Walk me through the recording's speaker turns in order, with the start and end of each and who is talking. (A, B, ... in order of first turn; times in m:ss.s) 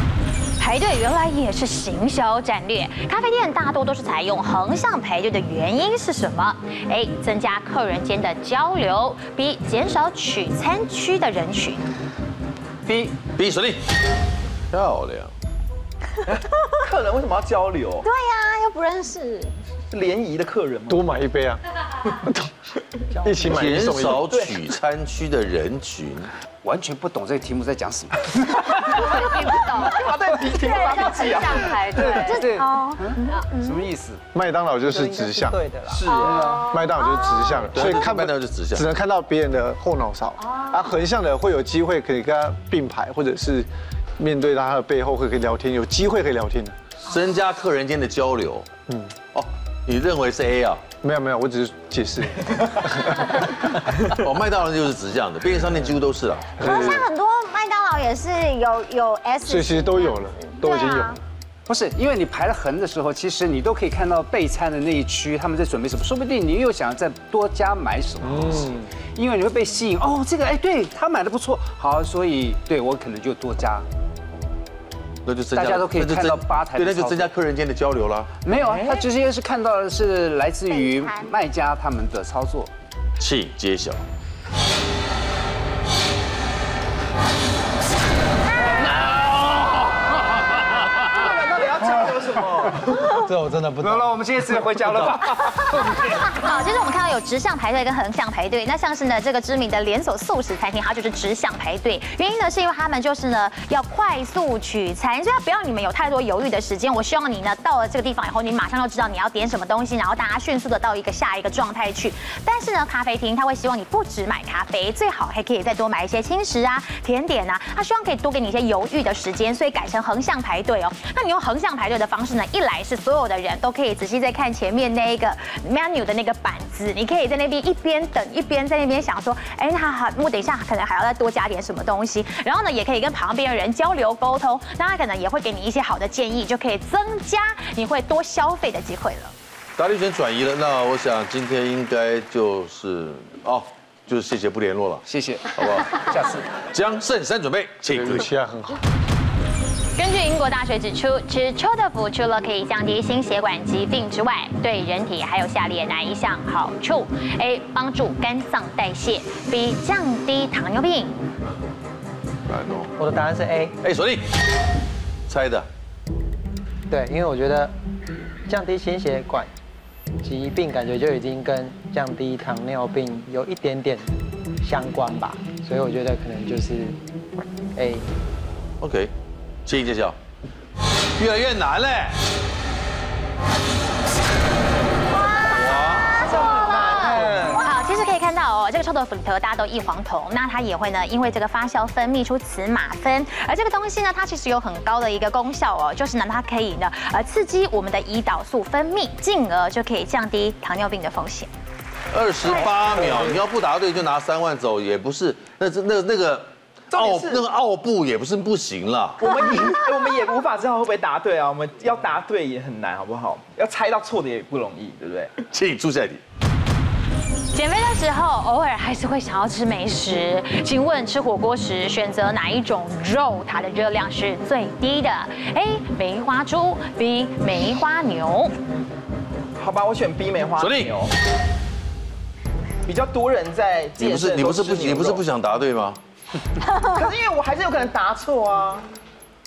0:00.6-0:11.9 A
0:12.8-0:13.2 B
0:13.4-0:13.8 C
0:14.7-0:15.3 C
0:16.3-0:18.1 D
0:18.0-0:19.5 E
0:19.9-0:21.1 D
0:20.9-0:21.6 F
0:22.2-0:22.5 F
0:23.1-0:23.5 G
0:23.2-0:24.2 F
0:23.5-0:26.3 C
0:24.2-0:24.5 D
0:26.6-0:28.7 B
0:28.7-0:33.9 E
0:29.7-0:32.1 D
0:32.0-0:34.2 B
0:34.3-0:35.7 F
0:34.9-0:36.1 G
0:35.9-0:36.6 D
0:36.1-0:37.8 E
0:36.7-0:46.8 F
0:37.7-0:38.9 C
0:47.0-0:48.7 C
0:49.3-0:50.8 C
0:51.0-0:54.0 F
0:54.2-0:56.6 C
0:56.6-1:01.2 E
0:56.6-0:57.1 F
0:59.4-1:01.2 F
1:01.7-1:13.9 B
1:15.2-1:18.3 C
1:15.5-1:17.4 B
1:18.4-1:22.7 B
1:18.6-1:19.0 D
1:20.7-1:21.3 E
1:23.2-1:24.0 C
1:31.1-1:33.1 D
1:33.1-1:36.3 B
1:33.6-1:34.0 C
1:36.1-2:19.3 A
2:19.8-2:26.1 C
2:25.0-2:26.5 B
2:26.7-2:28.3 C
2:28.1-2:28.8 F
2:30.0-2:41.3 A
2:42.5-2:42.9 C
2:43.0-2:43.8 G
2:43.8-2:44.2 C
2:45.3-2:45.7 C
2:46.9-2:47.7 G
2:48.5-2:49.5 G
2:50.2-2:54.1 G
2:54.6-2:57.0 G
2:57.8-2:58.1 G
2:58.8-2:59.1 C
2:59.7-3:00.2 C
3:01.2-3:02.2 C
3:05.3-3:06.3 E
3:05.4-3:06.2 C
3:06.3-3:07.6 D
3:06.7-3:21.5 A
3:22.1-3:29.3 C
3:26.9-3:27.4 D
3:29.2-3:35.3 D
3:35.5-3:36.2 C
3:37.5-3:48.5 A
3:49.6-3:51.1 D
3:50.6-3:51.0 C
3:52.9-3:55.2 D
3:54.0-3:56.0 C
3:56.9-3:58.9 D